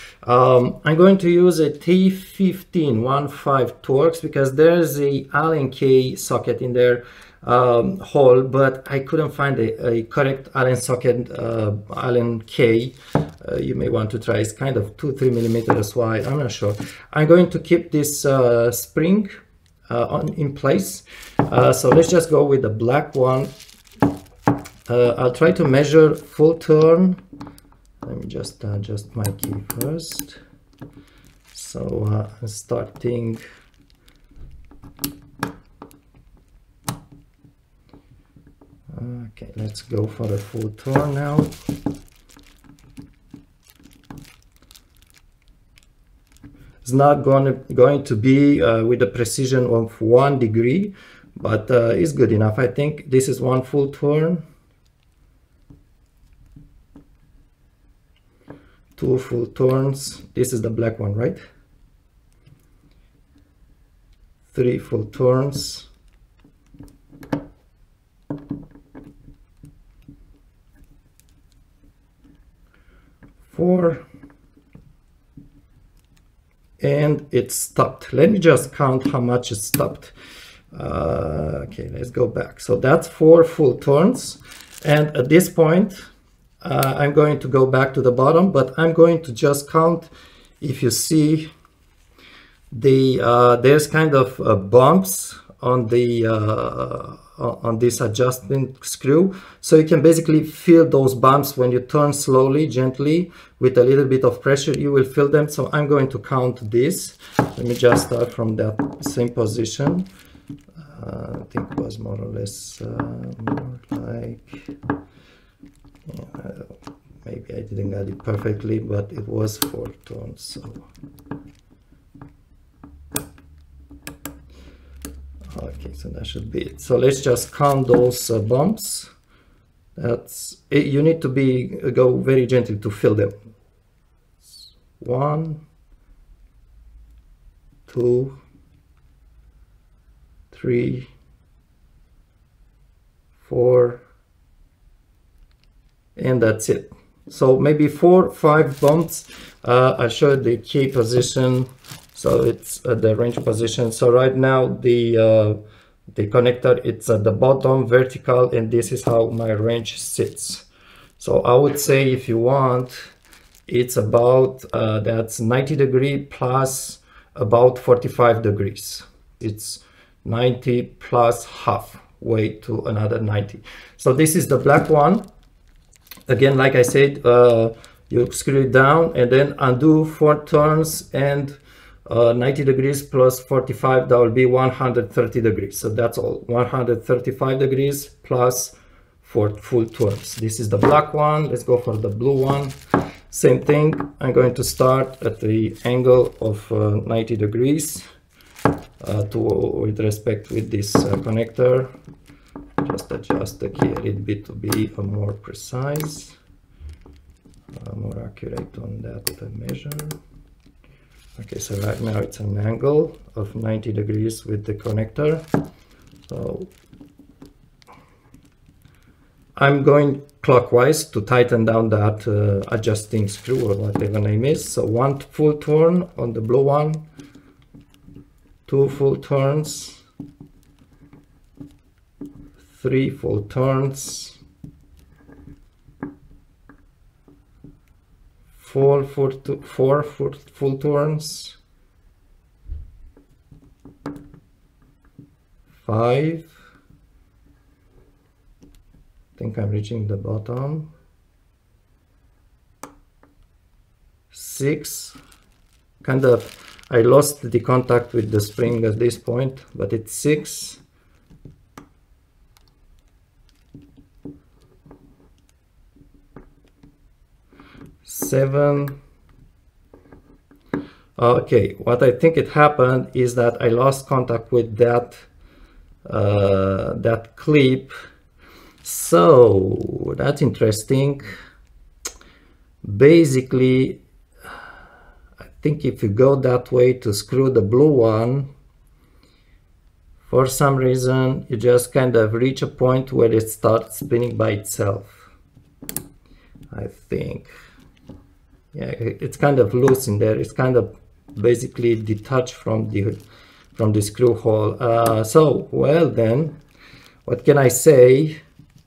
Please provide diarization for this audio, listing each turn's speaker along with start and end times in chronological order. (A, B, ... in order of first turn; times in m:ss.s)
0:00.2-0:19.3 A
0:19.9-0:23.5 A
0:24.9-0:27.2 A
0:28.0-0:30.4 A
0:31.5-0:33.4 A
0:38.9-0:41.5 A
0:46.8-0:54.4 A
0:59.0-1:01.4 A
1:04.5-1:05.9 A
1:13.5-1:14.0 A
1:16.8-1:20.1 A
1:20.7-1:26.0 A
1:26.6-1:30.1 A
1:30.6-1:31.5 A
1:32.7-1:50.1 A
1:50.8-1:54.7 A
1:56.1-1:56.7 A
1:57.2-2:00.9 A
2:05.5-2:09.1 A
2:10.0-2:13.3 A
2:14.4-2:15.6 A
2:17.9-2:18.4 A
2:20.5-2:21.1 A
2:23.4-2:24.0 A
2:26.2-2:35.6 A
2:36.1-2:40.7 A
2:41.2-2:43.1 A
2:43.7-2:55.2 A
2:56.3-3:12.7 A
3:13.3-3:18.0 A
3:19.0-3:21.9 A
3:22.8-3:26.4 A
3:27.7-3:30.2 A
3:31.4-3:35.5 A
3:36.2-3:36.7 A
3:39.6-3:47.0 A
3:48.7-3:50.0 A
3:52.6-3:54.4 A
3:58.6-4:01.6 A
4:05.8-4:06.5 A
4:09.4-4:10.9 A
4:14.3-4:15.2 A
4:16.0-4:20.8 A
4:28.0-4:29.0 A
4:31.2-4:35.3 A
4:36.1-4:37.9 A
4:38.8-4:41.3 A
4:42.8-4:44.0 A
4:45.6-4:48.5 A
4:50.2-4:55.3 A
4:56.7-4:57.5 A
4:58.7-5:03.2 A
5:03.8-5:06.6 A
5:07.3-5:08.4 A